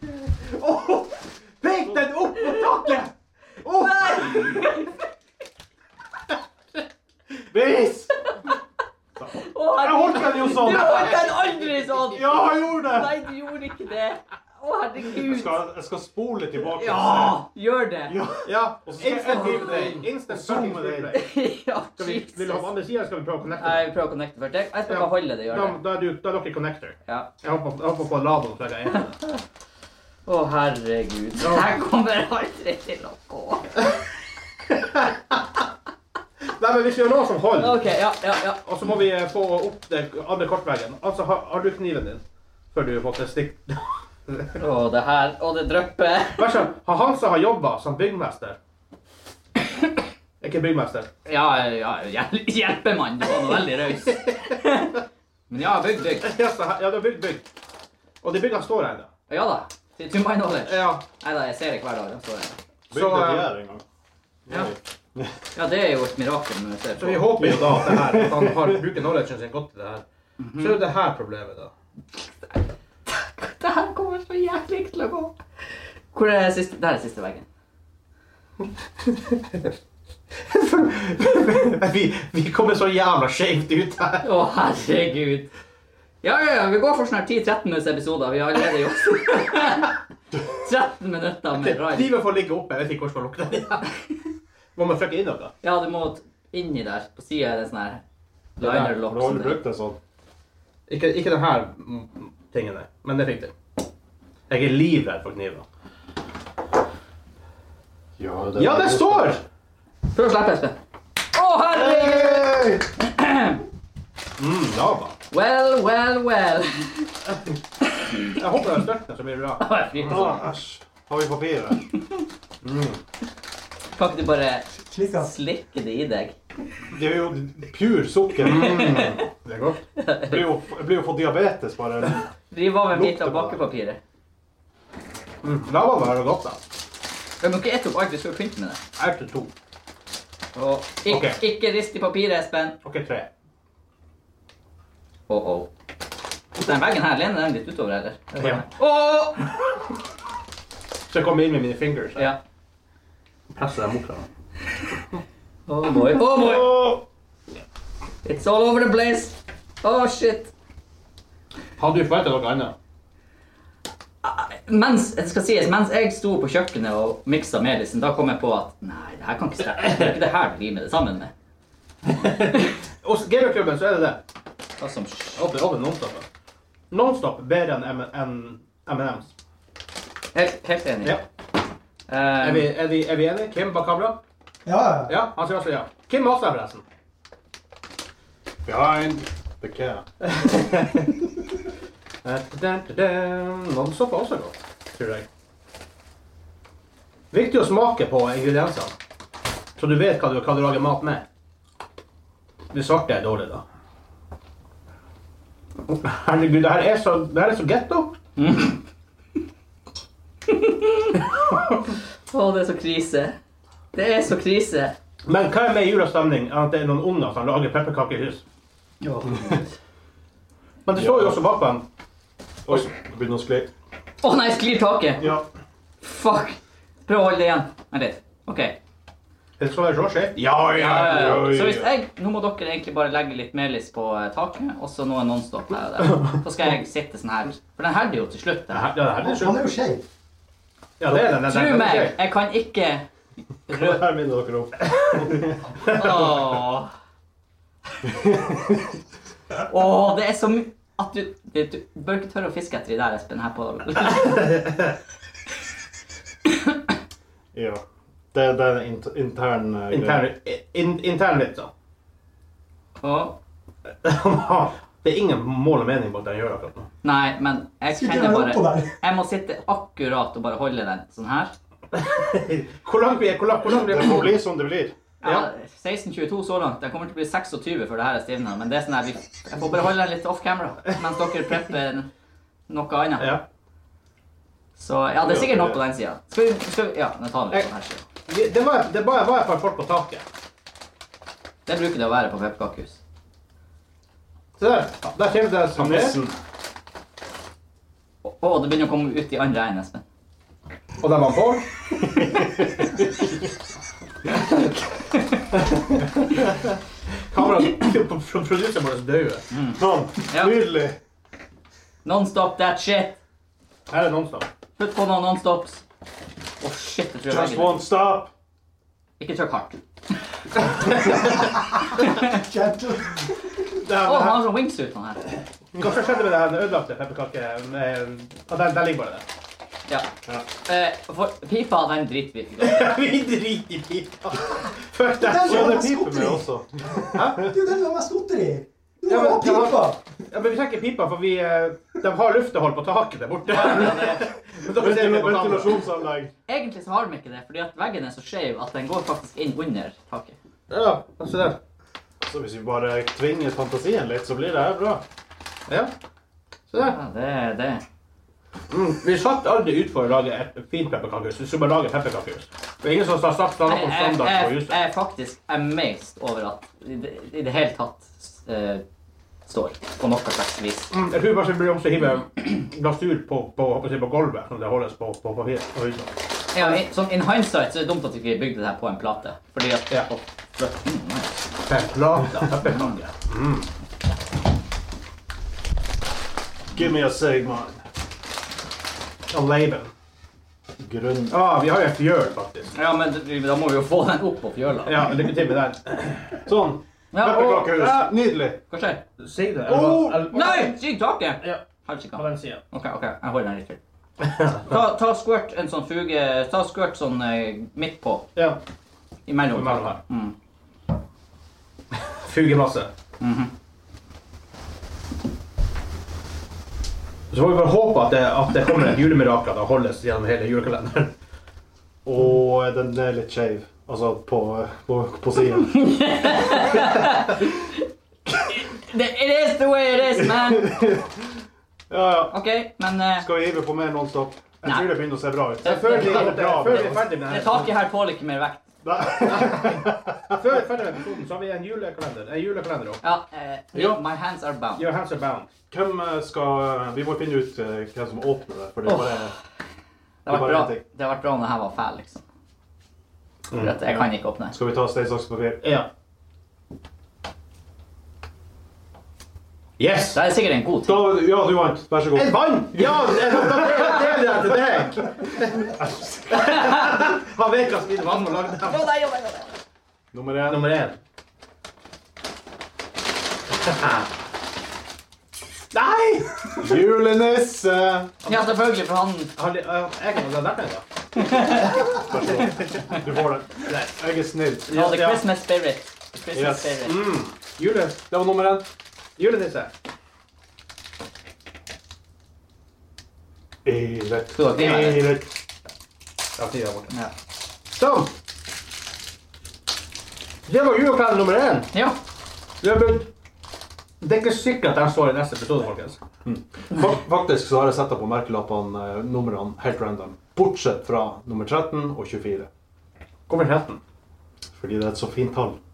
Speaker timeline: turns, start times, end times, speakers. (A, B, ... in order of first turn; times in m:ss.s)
0:00.3-0:03.1 A
0:03.7-0:04.6 A
0:03.7-0:05.0 B
0:03.8-0:04.4 C
0:07.5-0:08.1 C
0:09.2-0:13.2 C
0:09.4-0:15.6 B
0:10.6-0:11.3 A
0:15.2-0:17.4 C
0:16.6-0:18.2 B
0:18.1-0:21.2 C
0:18.4-0:21.3 A
0:19.2-0:20.0 B
0:21.1-0:22.7 B
0:22.0-0:23.8 A
0:23.6-0:25.8 B
0:24.9-0:29.2 A
0:30.3-0:33.9 B
0:31.4-0:31.7 A
0:34.8-0:35.3 A
0:36.5-0:37.8 A
0:37.6-0:38.6 B
0:38.6-0:42.2 A
0:42.7-0:44.5 A
0:44.6-0:46.5 B
0:46.4-0:48.6 A
0:50.4-0:51.1 A
0:51.3-0:56.3 B
0:56.2-0:57.4 A
0:58.2-0:59.1 A
0:59.3-1:02.6 B
1:00.6-1:01.0 A
1:02.9-1:03.8 C
1:02.9-1:03.5 A
1:04.5-1:05.4 C
1:05.6-1:07.3 B
1:07.0-1:10.0 A
1:07.4-1:09.0 C
1:10.4-1:10.8 B
1:10.6-1:11.7 A
1:12.2-1:15.4 B
1:16.1-1:17.5 B
1:19.1-1:19.8 A
1:20.3-1:24.3 A
1:24.2-1:25.5 B
1:26.2-1:32.2 B
1:31.5-1:33.9 A
1:34.8-1:35.5 A
1:35.6-1:38.0 B
1:38.6-1:38.9 A
1:38.6-1:39.6 B
1:38.9-1:40.0 C
1:40.9-1:43.5 A
1:44.5-1:45.6 A
1:48.2-1:49.4 C
1:48.6-1:49.4 A
1:50.1-1:50.8 B
1:51.3-1:53.6 B
1:51.7-1:52.9 C
1:54.4-1:55.2 A
1:55.3-1:57.1 B
1:57.9-1:58.3 B
1:58.3-2:00.3 A
1:59.6-2:00.4 B
2:00.1-2:01.9 C
2:02.6-2:03.0 C
2:04.0-2:06.4 B
2:04.9-2:05.3 D
2:06.9-2:09.2 C
2:08.4-2:09.8 A
2:08.5-2:09.2 B
2:10.0-2:10.4 B
2:10.3-2:12.3 C
2:12.5-2:14.0 B
2:12.9-2:13.6 C
2:15.4-2:16.6 A
2:17.4-2:18.8 B
2:19.0-2:19.5 A
2:20.6-2:22.8 B
2:21.1-2:21.4 A
2:22.8-2:23.3 A
2:25.3-2:25.7 B
2:26.6-2:29.6 B
2:28.4-2:28.6 A
2:31.1-2:32.3 A
2:33.5-2:34.2 A
2:35.7-2:37.0 B
2:36.4-2:37.0 C
2:38.2-2:40.5 B
2:41.8-2:42.8 A
2:44.2-2:51.3 B
2:52.0-2:54.2 A
2:54.8-2:55.5 B
2:55.4-2:56.3 A
2:56.9-2:59.3 A
3:00.3-3:01.2 B
3:02.1-3:02.7 B
3:02.4-3:04.2 A
3:04.7-3:05.2 D
3:05.1-3:06.8 A
3:08.7-3:10.0 C
3:10.2-3:11.2 A
3:12.2-3:15.3 A
3:17.3-3:18.9 A
3:19.8-3:21.2 A
3:22.7-3:23.6 A
3:25.9-3:28.1 A
3:28.4-3:28.8 B
3:30.5-3:31.6 B
3:32.3-3:33.4 B
3:33.9-3:34.9 B
3:35.3-3:38.4 A
3:39.3-3:39.6 C
3:40.9-3:41.8 A
3:41.0-3:41.4 C
3:42.7-3:43.7 C
3:44.2-3:45.3 B
3:45.2-3:45.5 C
3:46.0-3:48.8 B
3:49.6-3:51.5 A
3:50.7-3:51.9 C
3:50.7-3:58.9 B
3:56.0-3:56.3 A
3:58.7-3:59.8 A
3:59.2-4:00.0 D
4:01.0-4:02.2 A
4:01.3-4:03.1 B
4:03.7-4:04.0 B
4:03.7-4:05.8 C
4:04.9-4:05.2 A
4:05.8-4:06.3 A
4:05.9-4:06.9 B
4:08.1-4:08.9 C
4:09.6-4:14.5 B
4:14.0-4:14.9 A
4:17.5-4:17.8 C
4:18.3-4:20.3 C
4:19.9-4:21.7 A
4:23.0-4:23.4 B
4:24.0-4:26.9 A
4:27.0-4:31.5 B
4:27.9-4:28.9 D
4:31.9-4:34.4 A
4:33.7-4:35.0 C
4:35.2-4:42.1 B
4:42.7-4:43.4 B
4:43.2-4:43.4 A
4:44.8-4:48.0 B
4:45.2-4:45.8 C
4:48.3-4:50.2 A
4:51.7-4:53.0 B
4:54.6-4:56.2 A
4:55.7-4:56.4 C
4:58.2-5:00.0 B
5:01.0-5:01.6 A
5:02.1-5:03.1 C
5:04.3-5:05.7 B
5:06.4-5:06.8 A
5:07.3-5:09.4 A
5:09.5-5:10.6 B
5:09.8-5:11.0 C
5:12.0-5:13.2 B
5:13.9-5:14.5 A
5:14.8-5:15.8 B
5:16.6-5:17.8 B
5:17.3-5:18.3 C
5:19.2-5:19.8 B
5:20.9-5:22.4 B
5:22.2-5:23.6 D
5:23.8-5:24.4 A
5:24.0-5:25.2 B
5:25.8-5:29.2 A
5:30.6-5:32.8 B
5:32.6-5:35.9 A
5:35.2-5:40.0 D
5:35.4-5:37.5 C
5:37.1-5:37.5 A
5:39.1-5:45.8 A
5:43.5-5:44.2 B
5:44.8-5:46.3 C
5:46.5-5:50.4 B
5:50.7-5:51.6 A
5:52.2-5:55.0 C
5:56.7-5:57.0 A
5:56.8-5:57.8 B
5:58.7-6:04.8 A
6:03.7-6:08.8 B
6:09.5-6:10.9 B
6:10.9-6:16.8 A
6:16.5-6:21.4 B
6:21.6-6:23.7 A
6:22.6-6:23.0 B
6:26.7-6:27.8 C
6:29.3-6:29.9 A
6:30.8-6:31.4 C
6:31.3-6:32.8 A
6:32.8-6:35.1 B
6:34.9-6:36.4 A
6:36.4-6:38.6 C
6:37.1-6:37.6 B
6:37.2-6:38.1 A
6:38.7-6:39.0 B
6:39.2-6:40.8 A
6:39.7-6:40.4 C
6:40.3-6:43.8 B
6:42.2-6:42.6 A
6:44.2-6:44.7 A
6:44.6-6:48.3 B
6:49.3-6:50.3 B
6:49.5-6:50.0 A
6:51.9-6:52.9 A
6:53.2-6:53.5 B
6:57.3-7:01.1 A
7:02.0-7:05.8 C
7:05.7-7:07.8 B
7:08.3-7:10.8 B
7:10.1-7:11.4 C
7:11.9-7:12.3 C
7:12.3-7:13.3 B
7:13.2-7:17.2 C
7:14.6-7:14.9 B
7:15.6-7:18.6 B
7:15.6-7:17.7 A
7:18.8-7:20.4 C
7:19.3-7:23.0 A
7:23.0-7:24.9 B
7:23.7-7:24.0 A
7:24.8-7:25.5 A
7:25.7-7:29.4 C
7:28.8-7:29.3 B
7:30.2-7:32.2 B
7:30.3-7:30.8 C
7:33.5-7:33.8 A
7:33.5-7:34.6 B
7:33.8-7:35.6 C
7:35.6-7:35.9 A
7:39.8-7:40.2 A
7:40.1-7:41.1 B
7:40.9-7:46.6 C
7:42.1-7:45.7 A
7:46.3-7:48.9 A
7:48.6-7:49.6 B
7:50.1-7:50.6 C
7:50.4-7:51.0 A
7:53.6-7:54.1 A
7:55.7-7:56.9 A
7:56.6-7:58.1 C
7:58.2-7:58.7 A
7:58.3-7:59.3 B
7:59.4-8:00.8 A
8:01.2-8:02.0 B
8:01.8-8:04.7 C
8:03.6-8:04.0 A
8:04.7-8:05.3 A
8:04.7-8:07.0 B
8:06.3-8:06.8 C
8:06.8-8:08.0 A
8:08.1-8:08.6 C
8:09.2-8:09.7 A
8:13.6-8:15.3 C
8:14.4-8:15.1 B
8:14.5-8:15.0 A
8:16.4-8:16.9 A
8:17.7-8:18.1 A
8:20.5-8:21.7 A
8:21.7-8:22.0 B
8:22.6-8:23.1 A
8:24.0-8:26.0 A
8:26.2-8:32.5 C
8:33.3-8:33.8 A
8:34.6-8:35.6 C